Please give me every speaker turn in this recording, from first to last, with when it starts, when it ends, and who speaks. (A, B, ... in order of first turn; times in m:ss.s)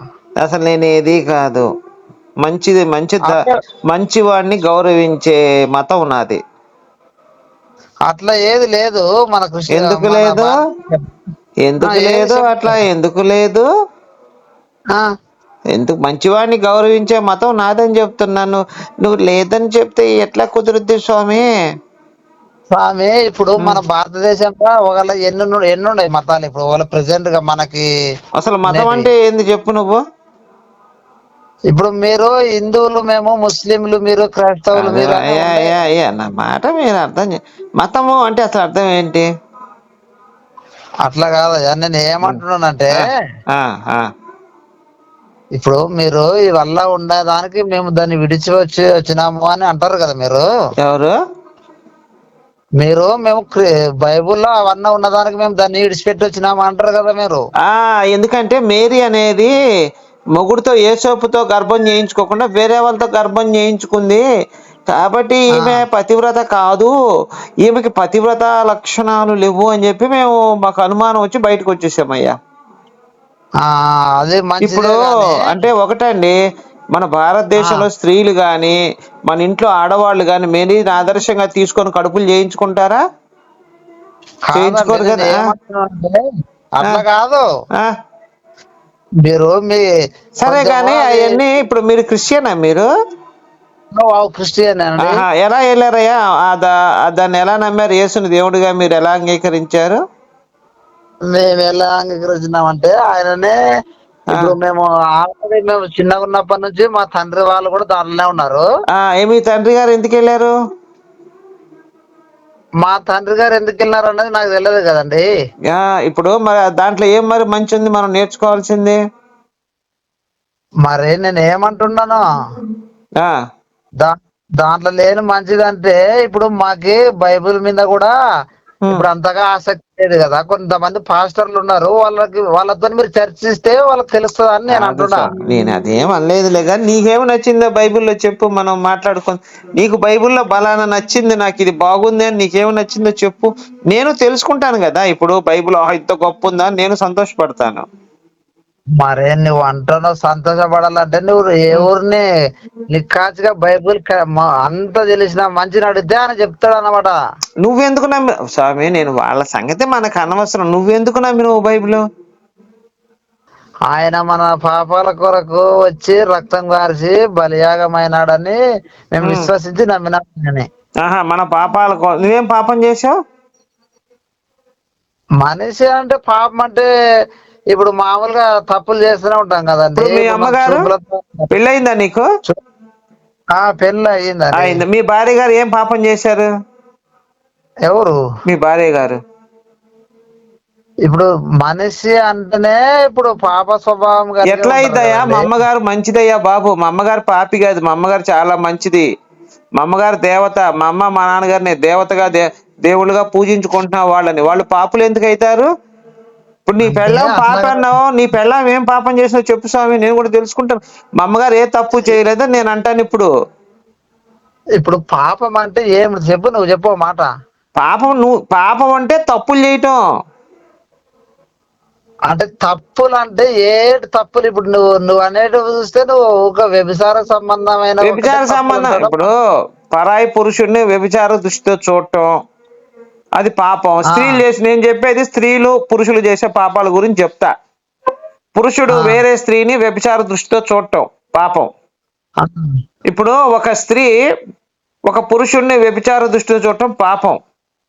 0:00.4-0:01.7 A
0:02.4-0:06.4 A
0:03.3-0:03.5 B
0:08.1-0:11.1 B
0:09.7-0:10.6 A
0:11.6-0:13.7 A
0:11.8-0:12.8 B
0:15.7-0:21.5 A
0:22.7-0:27.9 B
0:28.4-0:30.0 A
0:28.7-0:29.1 B
0:31.7-0:35.8 B
0:34.8-0:39.3 A
0:41.0-0:43.1 B
0:42.9-0:44.1 A
0:45.6-0:50.5 B
0:50.8-0:51.2 A
0:52.8-0:57.4 B
0:57.6-0:59.5 A
1:00.4-1:04.2 A
1:04.9-1:06.9 A
1:05.6-1:05.8 B
1:07.6-1:12.3 A
1:13.6-1:15.6 B
1:14.6-1:16.4 A
1:16.9-1:18.8 A
1:17.6-1:17.9 B
1:19.3-1:23.0 A
1:24.5-1:26.2 B
1:24.6-1:25.4 A
1:26.8-1:27.4 B
1:29.2-1:29.9 B
1:30.4-1:32.9 A
1:30.5-1:31.4 B
1:33.9-1:35.2 B
1:35.0-1:40.0 A
1:41.3-1:43.6 B
1:44.3-1:48.7 B
1:48.9-1:50.5 A
1:52.8-1:55.3 B
1:55.7-1:59.0 A
2:00.8-2:02.2 B
2:04.0-2:08.1 B
2:08.9-2:15.3 B
2:14.7-2:27.9 A
2:29.0-2:32.2 B
2:32.9-2:37.2 B
2:37.6-2:42.0 A
2:43.9-2:48.6 B
2:49.2-2:50.7 B
2:49.2-2:49.5 A
2:51.0-2:53.2 A
2:55.4-2:56.9 B
2:57.7-3:01.5 B
3:00.0-3:00.9 A
3:01.5-3:02.3 A
3:03.5-3:04.8 B
3:04.6-3:06.5 A
3:07.9-3:08.2 B
3:08.5-3:09.2 A
3:11.1-3:15.5 B
3:14.5-3:19.1 A
3:19.8-3:25.7 A
3:26.7-3:33.3 A
3:26.8-3:27.9 B
3:34.8-3:37.3 B
3:37.8-3:40.0 A
3:42.3-3:49.3 B
3:48.0-3:49.3 A
3:49.9-3:52.4 A
3:53.4-3:57.5 A
3:54.1-3:54.4 B
3:58.6-4:01.7 A
3:58.9-3:59.2 B
4:02.4-4:02.7 B
4:03.1-4:04.1 A
4:05.1-4:07.4 A